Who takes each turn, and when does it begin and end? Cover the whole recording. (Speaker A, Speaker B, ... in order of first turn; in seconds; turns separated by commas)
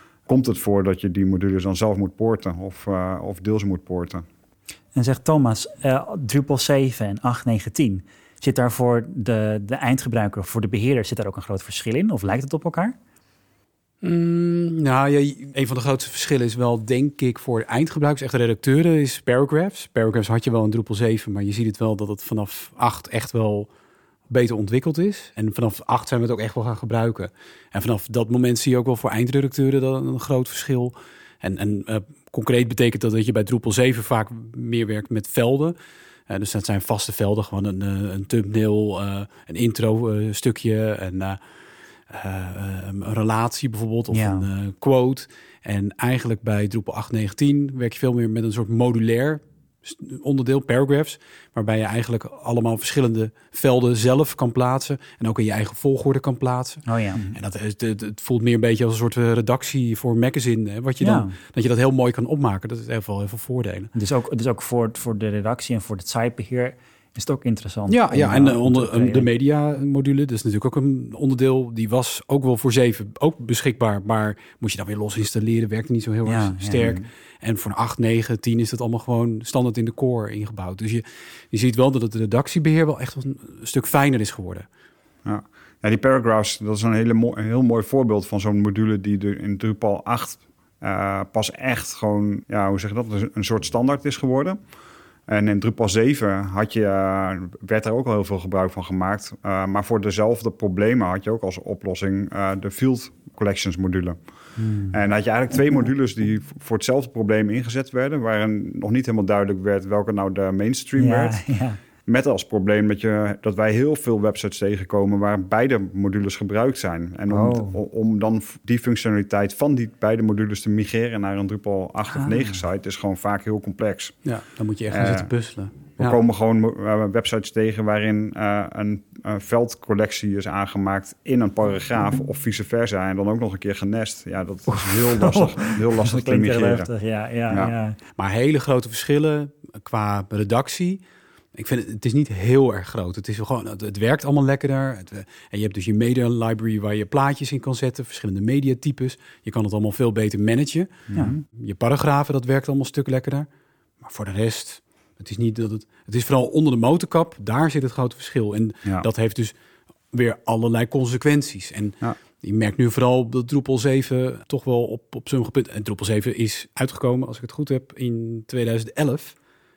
Speaker A: 0.2-4.2, Speaker B: 4.9-12.9, Speaker C: 14.0-23.7, Speaker C: 24.3-35.8, Speaker C: 36.3-41.4, Speaker C: 42.1-63.9, Speaker B: 44.1-44.5, Speaker B: 56.9-57.2, Speaker B: 61.0-61.3, Speaker B: 63.9-69.3, Speaker C: 67.9-84.7, Speaker B: 76.2-77.0, Speaker A: 85.2-94.6, Speaker A: 95.3-104.2, Speaker B: 104.6-105.0, Speaker A: 104.9-111.4, Speaker B: 111.0-111.8, Speaker A: 112.1-124.2, Speaker B: 117.3-117.8, Speaker B: 122.1-122.5, Speaker C: 124.2-126.2, Speaker A: 124.9-125.3, Speaker A: 126.0-136.9, Speaker B: 134.7-138.0, Speaker C: 138.2-141.0, Speaker C: 141.5-153.5, Speaker A: 151.1-151.4, Speaker C: 154.0-159.5, Speaker C: 160.1-169.3